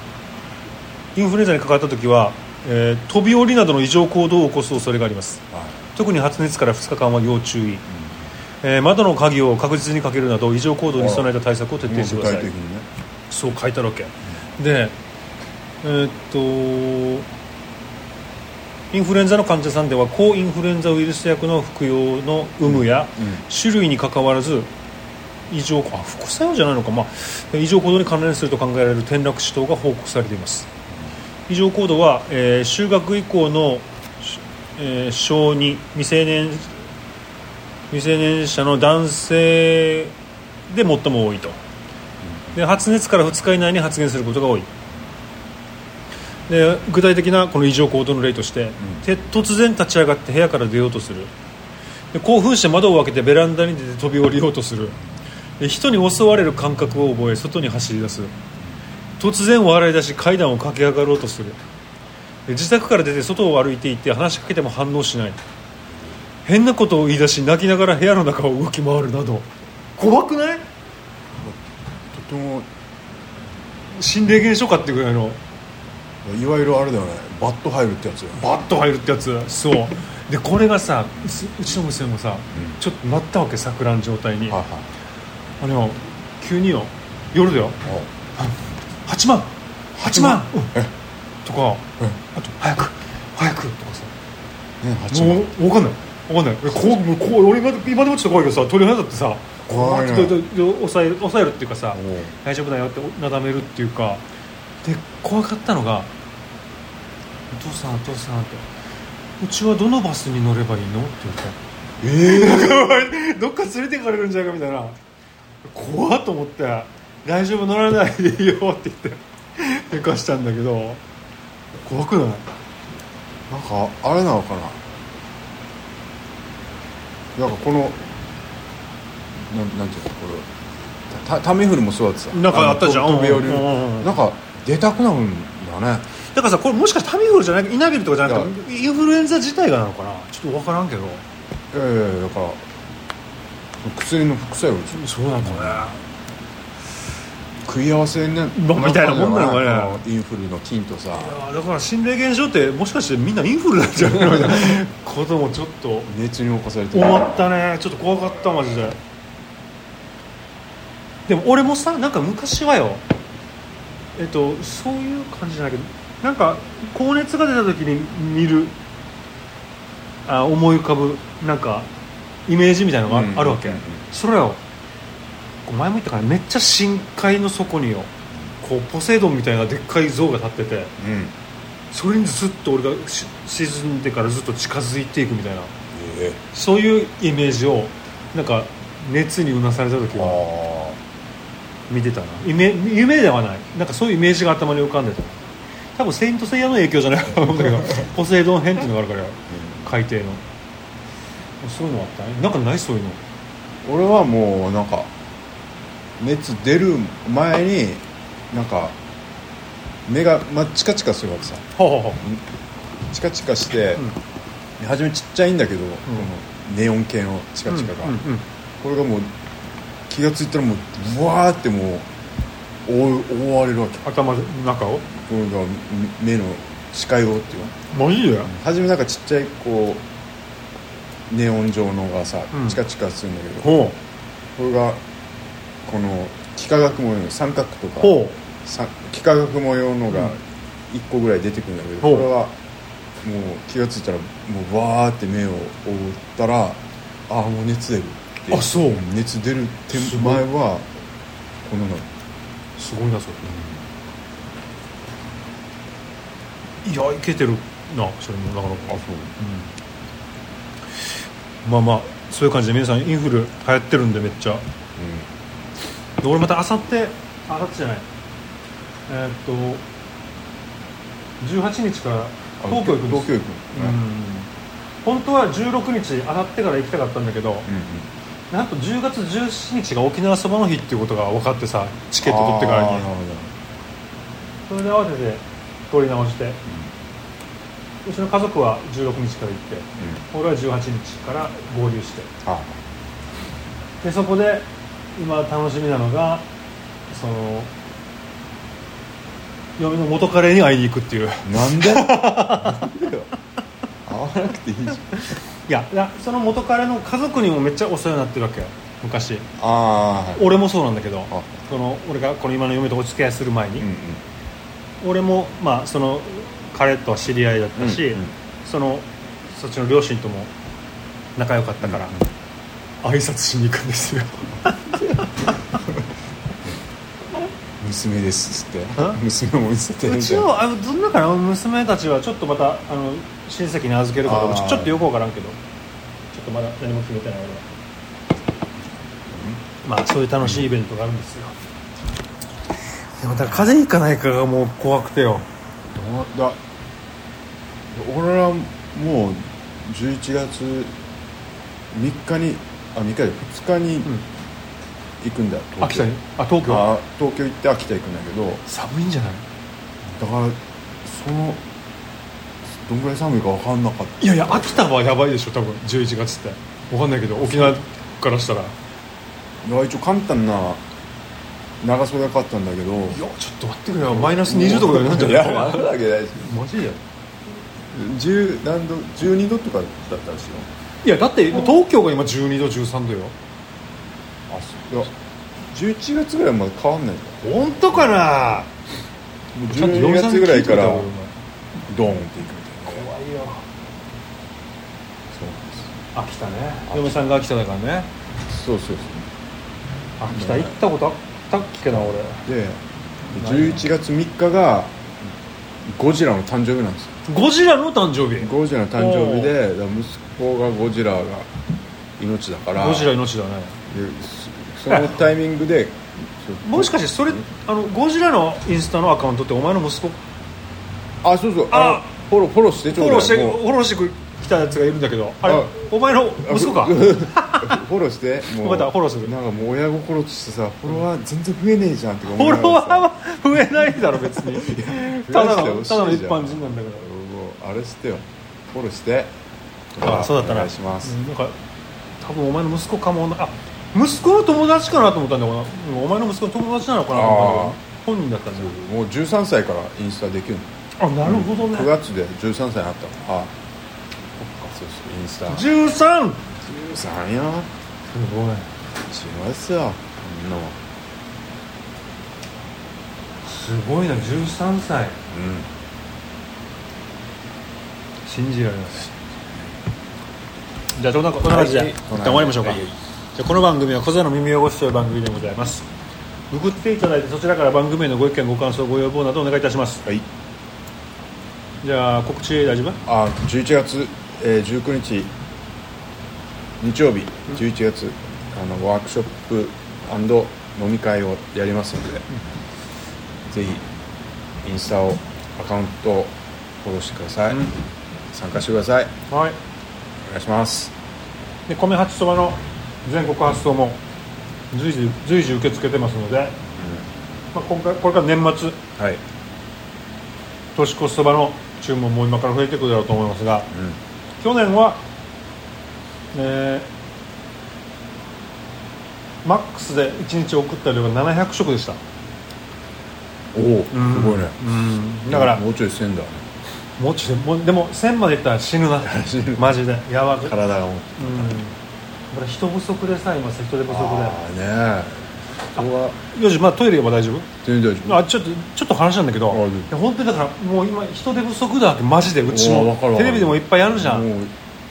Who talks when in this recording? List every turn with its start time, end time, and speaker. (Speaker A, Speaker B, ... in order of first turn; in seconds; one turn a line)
Speaker A: 1.1-7.8
Speaker B: 5.5-5.8
Speaker B: 7.9-8.2
Speaker A: 8.6-12.5
Speaker B: 10.9-12.9
Speaker A: 13.3-14.9
Speaker A: 15.8-17.2
Speaker A: 18.9-24.7
Speaker B: 22.6-23.4
Speaker A: 25.5-30.7
Speaker A: 31.5-36.7
Speaker A: 37.9-40.1
Speaker A: 40.7-41.6
Speaker B: 42.2-42.6
Speaker A: 42.5-44.7
Speaker A: 46.5-51.3
Speaker A: 52.1-55.0
Speaker A: 55.6-58.3
Speaker A: 59.2-61.6
Speaker A: 62.5-65.4
Speaker A: 66.4-70.6
Speaker B: 71.3-71.6
Speaker B: 72.1-72.7
Speaker A: 73.9-75.4
Speaker B: 76.2-78.5
Speaker A: 78.3-84.6
Speaker B: 84.5-84.9
Speaker A: 85.6-87.8
Speaker B: 87.8-88.1
Speaker A: 88.4-90.7
Speaker B: 90.0-90.9
Speaker A: 91.4-94.1
Speaker B: 94.8-95.5
Speaker A: 95.1-104.2
Speaker B: 96.7-97.0
Speaker B: 99.7-100.4
Speaker B: 101.9-102.3
Speaker A: 104.8-106.1
Speaker A: 107.5-108.7
Speaker A: 109.4-111.6
Speaker B: 112.0-112.8
Speaker A: 112.1-115.0
Speaker A: 115.7-121.0
Speaker A: 121.8-122.5
Speaker B: 123.5-124.8
Speaker B: 127.3-128.0
Speaker B: 129.4-130.5
Speaker B: 131.1-136.1
Speaker A: 132.3-134.1
Speaker A: 136.3-141.2
Speaker B: 138.2-138.5
Speaker B: 141.7-142.6
Speaker B: 143.8-145.9
Speaker A: 144.9-146.0
Speaker B: 147.6-151.3
Speaker A: 148.5-150.0
Speaker A: 151.1-156.1
Speaker B: 154.0-154.8
Speaker B: 156.1-157.2
Speaker A: 156.9-159.0
Speaker A: 161.3-163.0
Speaker A: 164.2-168.8
Speaker A: 170.2-171.9
Speaker A: 172.5-174.6
Speaker B: 173.1-174.0
Speaker A: 175.7-178.1
Speaker A: 178.6-180.9
Speaker B: 181.0-181.3
Speaker A: 181.9-185.7
Speaker B: 185.9-186.4
Speaker A: 186.5-190.4
Speaker B: 190.1-191.0
Speaker A: 191.9-195.4
Speaker A: 195.9-200.4
Speaker B: 197.4-198.1
Speaker B: 199.6-199.8
Speaker A: 201.6-203.2
Speaker B: 203.8-205.1
Speaker B: 206.2-209.0
Speaker B: 210.1-212.4
Speaker A: 211.8-212.2
Speaker B: 213.1-214.0
Speaker B: 214.8-218.2
Speaker A: 217.7-218.4
Speaker B: 218.8-219.3
Speaker B: 220.1-222.1
Speaker B: 222.8-224.0
Speaker A: 224.0-225.1
Speaker B: 225.2-227.8
Speaker A: 227.9-228.5
Speaker B: 228.4-230.1
Speaker B: 231.3-233.8
Speaker A: 232.5-232.8
Speaker A: 233.6-234.0
Speaker B: 234.6-235.0
Speaker B: 235.8-242.6
Speaker A: 238.0-238.3
Speaker A: 242.0-242.3
Speaker B: 243.2-250.9
Speaker A: 248.5-249.0
Speaker A: 249.9-250.4
Speaker B: 251.6-252.1
Speaker A: 252.8-253.4
Speaker B: 253.4-253.8
Speaker A: 256.8-259.7
Speaker B: 258.9-259.4
Speaker A: 261.6-264.6
Speaker B: 264.9-265.3
Speaker A: 266.2-268.1
Speaker A: 269.1-269.8
Speaker A: 271.4-274.5
Speaker B: 272.6-274.0
Speaker A: 275.0-277.7
Speaker B: 277.6-278.1
Speaker A: 278.5-283.1
Speaker B: 282.2-283.5
Speaker A: 284.7-286.6
Speaker A: 288.0-292.3
Speaker B: 292.4-292.8
Speaker A: 294.0-296.5
Speaker A: 297.1-297.7
Speaker A: 299.8-302.9
Speaker B: 301.4-303.3
Speaker B: 304.0-305.2
Speaker A: 305.1-309.5
Speaker B: 309.6-310.5
Speaker A: 310.3-313.9
Speaker B: 313.8-314.2
Speaker A: 315.0-320.5
Speaker B: 317.8-318.3
Speaker A: 321.4-322.1
Speaker B: 321.8-322.2
Speaker A: 323.0-325.6
Speaker B: 327.8-330.5
Speaker A: 330.0-335.6
Speaker B: 334.2-335.0
Speaker A: 336.3-337.6
Speaker B: 339.3-339.6
Speaker A: 339.8-341.6
Speaker B: 340.4-340.7
Speaker A: 343.2-345.5
Speaker B: 345.9-346.6
Speaker B: 347.9-350.9
Speaker B: 351.9-354.1
Speaker B: 355.2-356.1
Speaker A: 355.8-356.9
Speaker B: 356.6-358.6
Speaker A: 358.6-359.4
Speaker B: 360.1-361.6
Speaker B: 362.8-364.8
Speaker A: 364.2-368.7
Speaker B: 367.4-367.8
Speaker B: 369.6-370.8
Speaker B: 371.8-373.2
Speaker A: 373.1-377.0
Speaker B: 374.0-376.5
Speaker B: 377.9-380.7
Speaker A: 381.0-383.3
Speaker B: 384.5-385.1
Speaker B: 385.7-388.2
Speaker A: 387.4-388.7
Speaker B: 389.6-391.1
Speaker A: 389.7-391.3
Speaker B: 391.9-393.1
Speaker A: 392.9-393.6
Speaker B: 395.3-395.9
Speaker A: 396.1-398.1
Speaker B: 396.9-397.2
Speaker B: 398.5-399.3
Speaker A: 400.2-402.4
Speaker B: 400.3-400.8
Speaker B: 401.9-402.8
Speaker A: 403.3-403.9
Speaker B: 403.3-405.0
Speaker B: 405.9-407.1
Speaker A: 407.3-409.5
Speaker B: 408.4-411.5
Speaker B: 412.2-413.1
Speaker A: 412.8-413.8
Speaker B: 413.9-417.4
Speaker A: 414.9-415.2
Speaker A: 416.6-420.2
Speaker B: 421.2-423.6
Speaker A: 421.7-422.1
Speaker A: 422.9-427.8
Speaker B: 425.4-425.7
Speaker B: 426.4-433.1
Speaker A: 428.6-429.3
Speaker A: 432.3-437.1
Speaker B: 433.9-439.3
Speaker B: 439.9-441.2
Speaker A: 440.0-441.6
Speaker A: 442.2-448.7
Speaker B: 447.1-447.8
Speaker B: 448.6-450.7
Speaker A: 451.0-451.9
Speaker B: 451.2-453.5
Speaker A: 454.4-454.7
Speaker B: 454.7-455.7
Speaker A: 455.5-456.4
Speaker B: 456.6-457.7
Speaker A: 458.1-458.7
Speaker B: 459.1-460.8
Speaker A: 463.4-465.2
Speaker B: 465.3-465.7
Speaker A: 468.2-469.1
Speaker A: 470.9-475.9
Speaker B: 471.4-472.9
Speaker A: 476.5-480.0
Speaker A: 481.8-483.0
Speaker B: 483.1-485.3
Speaker B: 486.8-492.2
Speaker B: 493.5-493.8
Speaker B: 494.6-497.7
Speaker B: 498.3-499.1
Speaker A: 499.3-499.6
Speaker B: 500.2-500.9
Speaker A: 501.7-504.0
Speaker A: 504.7-506.6
Speaker B: 506.8-507.1
Speaker A: 507.5-508.8
Speaker B: 509.0-509.2
Speaker A: 510.7-513.7
Speaker B: 513.7-514.0
Speaker A: 514.4-515.0
Speaker A: 516.3-516.9
Speaker A: 519.4-522.0
Speaker B: 523.5-524.6
Speaker A: 523.9-525.6
Speaker B: 525.3-526.5
Speaker A: 527.0-530.6
Speaker B: 529.0-529.8
Speaker B: 530.4-531.7
Speaker A: 531.2-531.7
Speaker A: 532.3-534.4
Speaker B: 533.9-536.2
Speaker A: 535.8-537.5
Speaker B: 537.6-538.2
Speaker A: 538.0-544.3
Speaker B: 539.5-539.9
Speaker B: 542.5-544.5